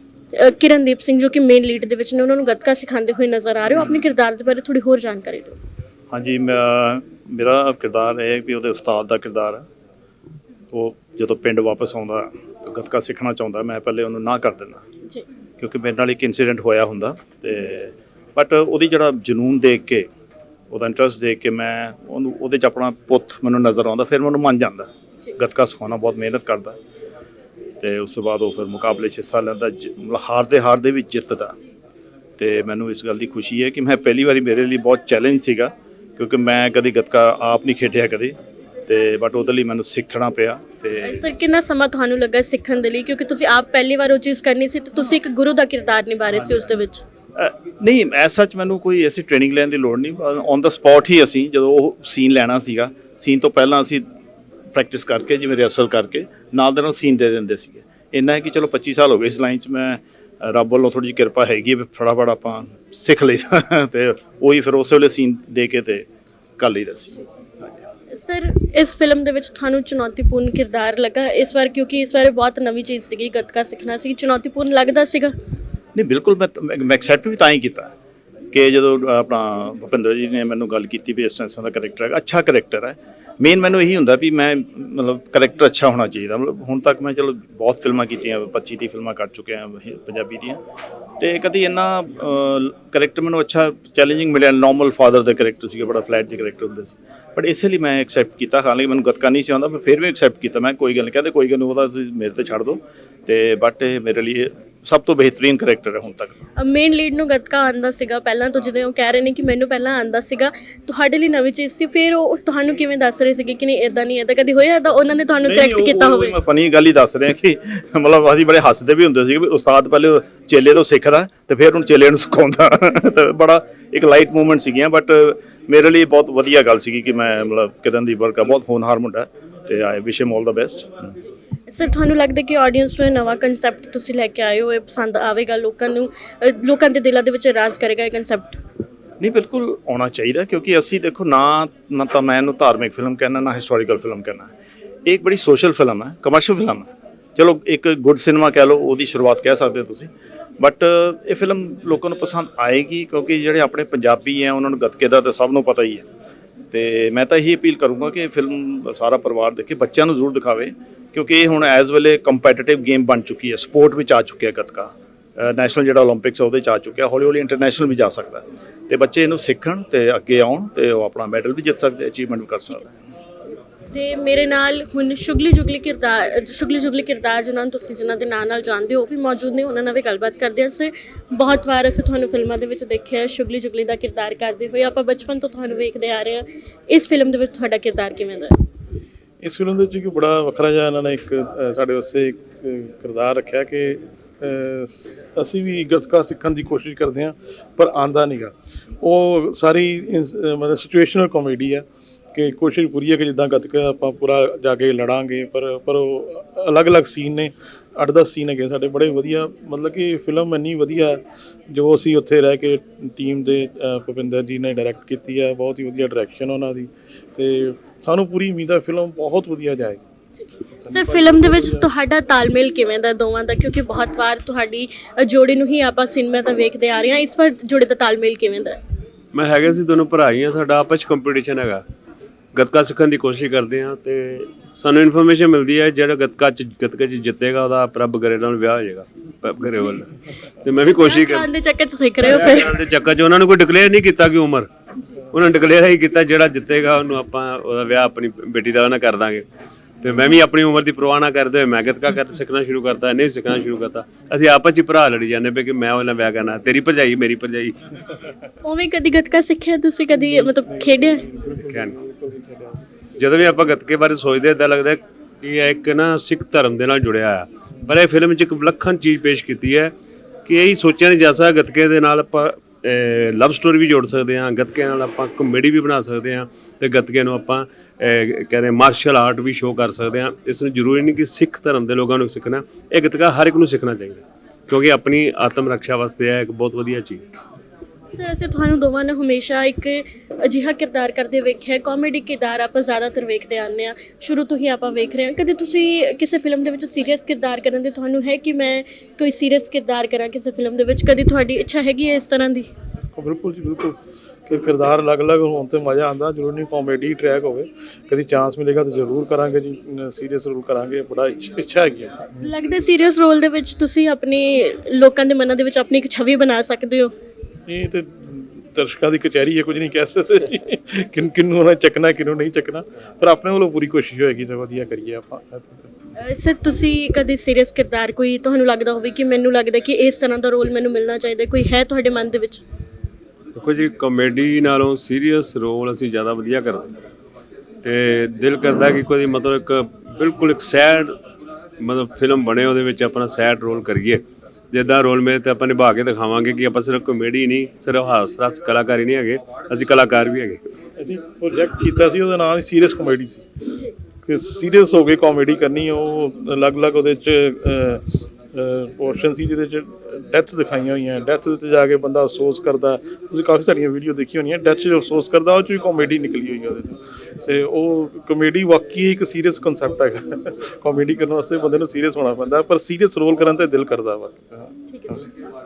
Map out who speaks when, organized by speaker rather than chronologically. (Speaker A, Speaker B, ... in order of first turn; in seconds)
Speaker A: 0.3-5.6, 41.0-47.0, 68.1-75.3, 106.6-116.4, 131.7-138.6, 173.9-188.6, 220.9-228.8, 240.9-242.7, 258.6-261.3, 288.1-302.7, 312.4-317.1, 326.2-332.6, 374.9-375.2
Speaker B: 6.1-9.6, 10.7-14.8, 15.6-20.1, 20.7-26.8, 27.8-31.6, 32.4-38.4, 38.9-41.2, 47.4-54.0, 54.7-66.1, 66.6-67.8, 76.0-77.9, 78.5-90.6, 91.2-106.4, 115.5-130.9, 139.2-144.5, 145.1-156.1, 156.7-172.9
Speaker C: 189.4-220.0, 220.8-221.9, 260.1-262.8, 303.2-312.5, 317.7-325.9, 351.0-353.4, 354.3-375.2
Speaker D: 229.3-231.8, 232.5-241.5, 242.3-244.7, 245.3-249.4, 250.0-257.8, 261.7-262.0, 263.2-269.9, 270.5-287.2, 333.5-336.9, 337.8-341.1, 341.8-350.6